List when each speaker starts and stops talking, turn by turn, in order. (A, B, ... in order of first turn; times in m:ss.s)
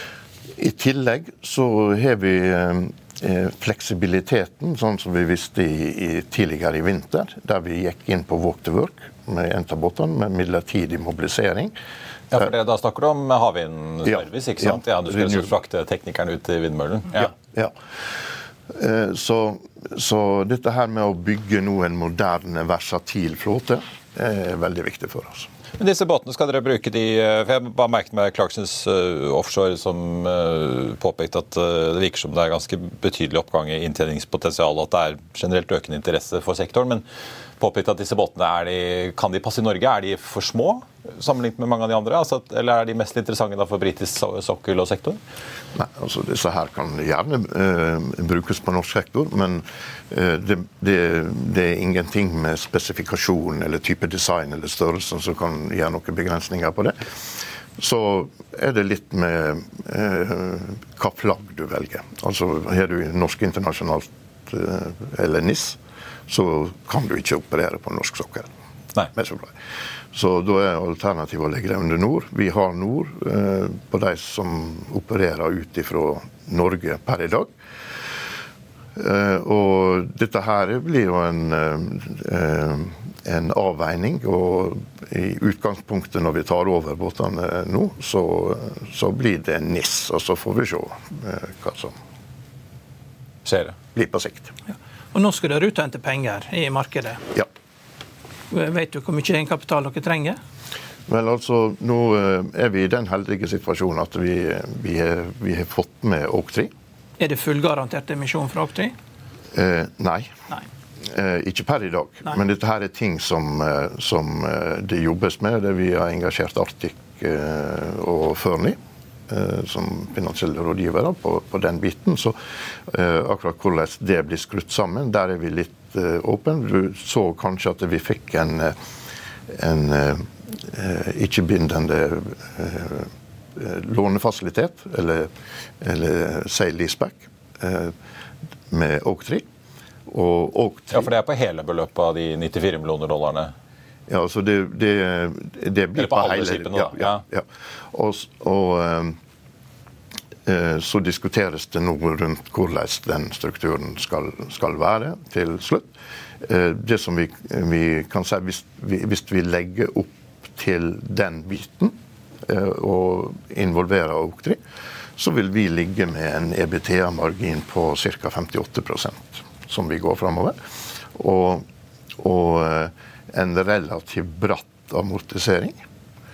0:00.6-0:11.7 A
0:12.3-0:17.3 B
0:14.0-0:15.5 A
0:17.2-0:17.7 A
0:18.7-0:25.5 A
0:25.8-0:37.0 B
0:37.6-0:45.2 B
0:45.7-0:57.0 A
0:57.8-1:08.5 A
1:09.1-1:09.5 A
1:10.1-1:17.5 A
1:19.0-1:31.9 A
1:33.4-1:33.8 B
1:33.9-1:34.5 A
1:35.1-1:37.2 C
1:38.5-1:40.4 C
1:41.1-1:46.7 A
1:47.2-1:48.9 C
1:49.5-1:50.3 A
1:51.0-1:58.8 A
1:59.3-2:08.8 A
2:09.5-2:15.3 A
2:15.8-2:17.9 A
2:18.7-2:19.4 A
2:20.1-2:21.1 A
2:20.9-2:23.5 B
2:24.1-2:29.2 A
2:26.0-2:27.2 B
2:30.4-2:35.9 A
2:36.4-2:41.9 A
2:42.4-2:44.6 A
2:45.2-2:50.6 A
2:51.1-2:51.6 A
2:52.2-2:55.8 A